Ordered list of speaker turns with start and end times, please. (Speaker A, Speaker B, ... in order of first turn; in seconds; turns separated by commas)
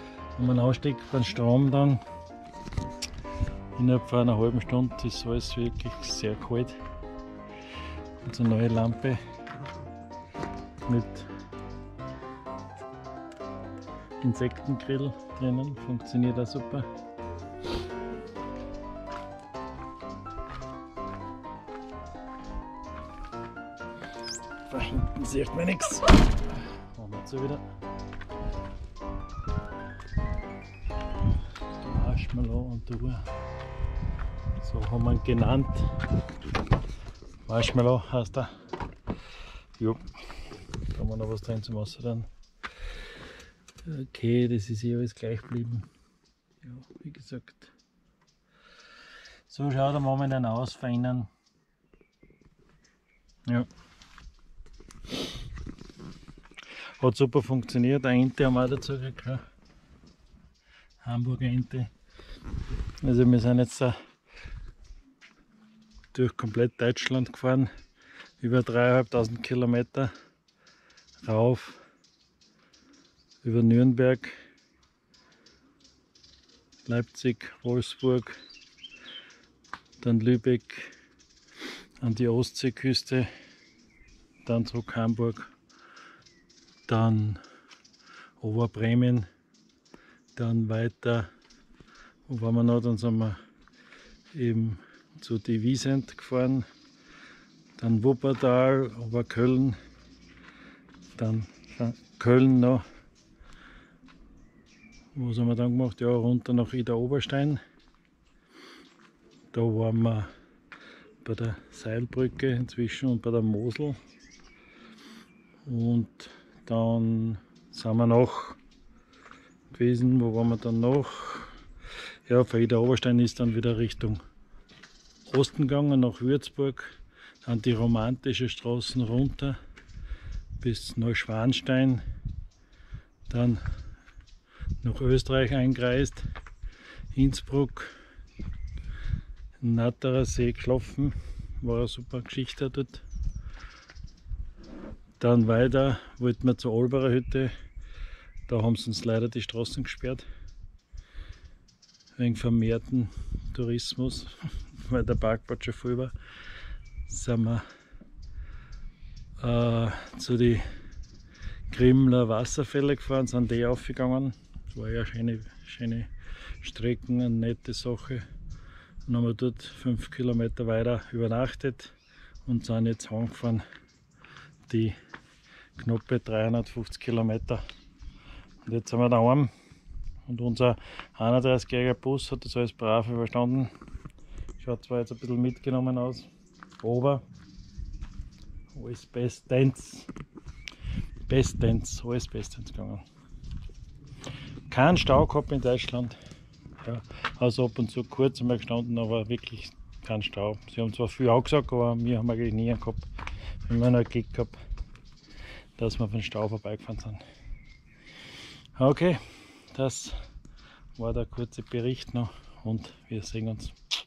Speaker A: 0.3-2.0, Speaker A: 3.8-6.8, Speaker A: 8.2-9.2, Speaker A: 10.8-11.3, Speaker A: 14.2-16.9, Speaker A: 24.6-26.2, Speaker A: 26.9-27.6, Speaker A: 31.8-33.2, Speaker A: 34.6-35.9, Speaker A: 37.5-38.5, Speaker A: 39.8-40.1, Speaker A: 40.8-42.3, Speaker A: 43.8-45.9, Speaker A: 46.6-47.7, Speaker A: 49.5-51.3, Speaker A: 57.0-59.4, Speaker A: 61.0-61.9, Speaker A: 63.0-64.0, Speaker A: 66.1-67.7, Speaker A: 68.4-70.1, Speaker A: 71.2-71.8, Speaker A: 73.4-74.4, Speaker A: 76.8-78.4, Speaker A: 80.0-80.9, Speaker A: 82.0-83.3, Speaker A: 84.4-85.5, Speaker A: 86.9-87.4, Speaker A: 88.4-89.3, Speaker A: 90.3-91.3, Speaker A: 92.3-93.4, Speaker A: 94.3-96.7, Speaker A: 97.8-99.8, Speaker A: 101.1-102.8, Speaker A: 105.1-107.6, Speaker A: 109.5-110.3, Speaker A: 111.2-114.0, Speaker A: 115.6-118.6, Speaker A: 119.7-121.5, Speaker A: 122.3-124.2, Speaker A: 125.2-129.6, Speaker A: 130.6-132.0, Speaker A: 133.3-133.6, Speaker A: 134.8-136.2, Speaker A: 137.1-137.9, Speaker A: 139.6-143.0, Speaker A: 145.2-147.5, Speaker A: 148.5-150.2, Speaker A: 152.2-156.1, Speaker A: 157.1-157.6, Speaker A: 159.4-160.6, Speaker A: 161.7-168.2, Speaker A: 169.1-171.9, Speaker A: 172.4-173.6, Speaker A: 174.7-174.9, Speaker A: 175.8-177.6, Speaker A: 178.6-179.5, Speaker A: 180.2-183.7, Speaker A: 184.6-186.3, Speaker A: 186.8-187.2, Speaker A: 188.7-190.1, Speaker A: 191.3-193.0, Speaker A: 194.7-196.2, Speaker A: 196.8-203.1, Speaker A: 203.7-204.6, Speaker A: 205.8-207.2, Speaker A: 208.8-210.2, Speaker A: 210.9-213.8